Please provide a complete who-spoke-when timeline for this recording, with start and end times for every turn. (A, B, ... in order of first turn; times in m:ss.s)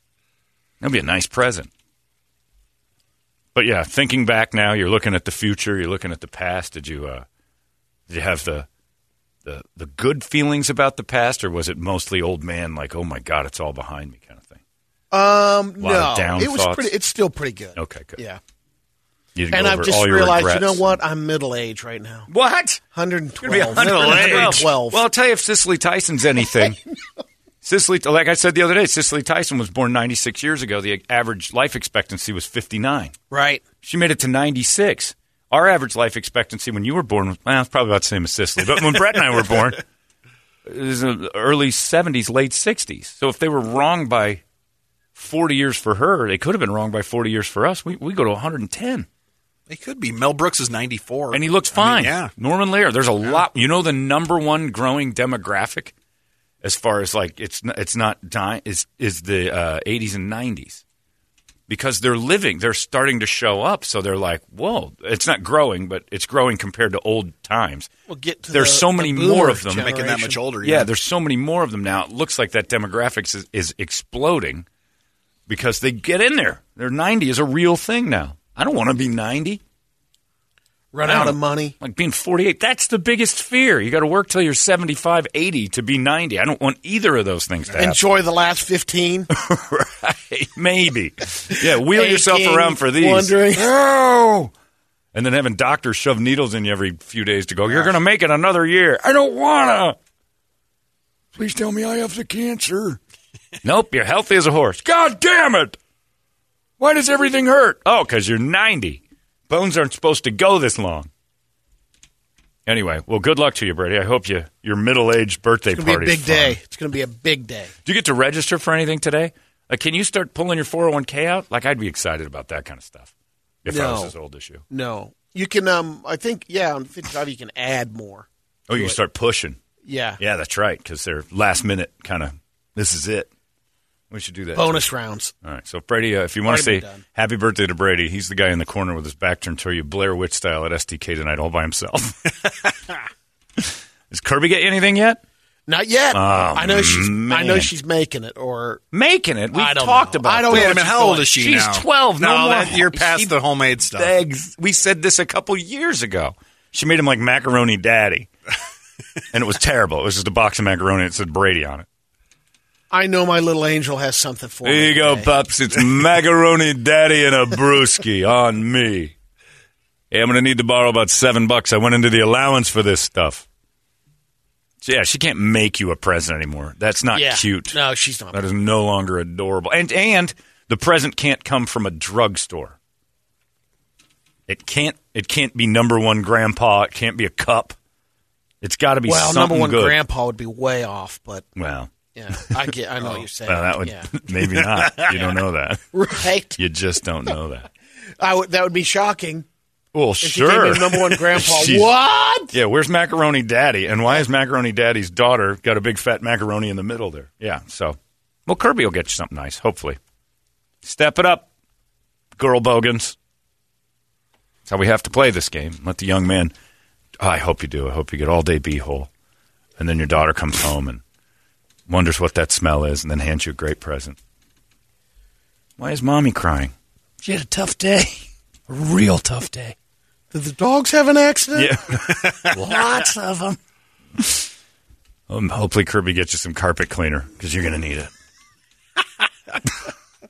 0:00.8-0:01.7 A
0:03.6-0:07.2 A
0:08.1-0:08.7 A
0:09.4-0:14.6 A
0:15.1-0:18.4 B
0:15.8-0:16.9 A
0:17.8-0:18.2 A
0:19.4-0:21.0 A
0:19.5-0:22.3 B
0:22.3-0:22.8 A
0:22.9-0:25.0 B
0:23.4-0:26.8 A
0:23.8-0:24.6 C
0:27.6-0:33.1 A
0:33.3-0:33.6 B
0:33.8-0:39.8 A
0:40.6-0:44.4 A
0:45.2-0:49.1 A
0:49.7-0:52.3 C
0:51.3-0:55.9 A
0:56.6-1:00.8 A
1:01.7-1:07.9 A
1:08.1-1:10.4 B
1:08.5-1:09.9 A
1:09.8-1:10.9 C
1:10.6-1:14.6 A
1:15.5-1:19.6 A
1:20.9-1:21.8 B
1:21.0-1:28.0 A
1:27.8-1:29.3 B
1:29.3-1:34.5 A
1:31.8-1:33.7 B
1:35.1-1:40.0 A
1:41.4-1:43.0 A
1:43.6-1:45.8 A
1:46.8-1:51.1 A
1:52.7-1:56.6 A
1:55.7-1:57.7 B
1:57.8-2:03.1 A
2:03.6-2:04.6 A
2:03.7-2:04.1 B
2:04.7-2:09.0 B
2:08.7-2:09.6 A
2:09.8-2:10.2 B
2:10.2-2:13.3 A
2:14.1-2:14.8 A
2:14.6-2:15.3 B
2:15.4-2:22.8 A
2:16.4-2:17.0 B
2:23.6-2:25.2 A
2:25.7-2:28.8 B
2:26.1-2:27.7 A
2:28.9-2:33.4 A
2:29.5-2:31.3 B
2:30.4-2:34.1 C
2:33.9-2:38.3 A
2:39.3-2:41.9 A
2:42.9-2:45.3 B
2:44.6-2:49.1 A
2:50.1-2:53.4 A
2:54.8-2:57.8 A
2:57.1-2:58.4 B
2:58.3-3:02.8 A
3:04.5-3:07.8 A
3:08.6-3:10.0 A
3:09.1-3:11.4 B
3:11.6-3:15.9 A
3:12.2-3:14.1 B
3:15.9-3:16.6 B
3:16.6-3:17.7 A
3:18.2-3:19.4 B
3:19.9-3:21.9 A
3:20.2-3:22.6 B
3:22.5-3:30.0 A
3:30.8-3:31.5 A
3:32.4-3:33.1 A
3:34.7-3:36.5 A
3:37.2-3:39.1 A
3:39.8-3:41.0 A
3:41.9-3:44.2 A
3:45.8-3:49.8 A
3:50.3-3:53.0 B
3:51.6-3:53.6 A
3:54.2-3:54.5 A
3:55.3-3:58.1 A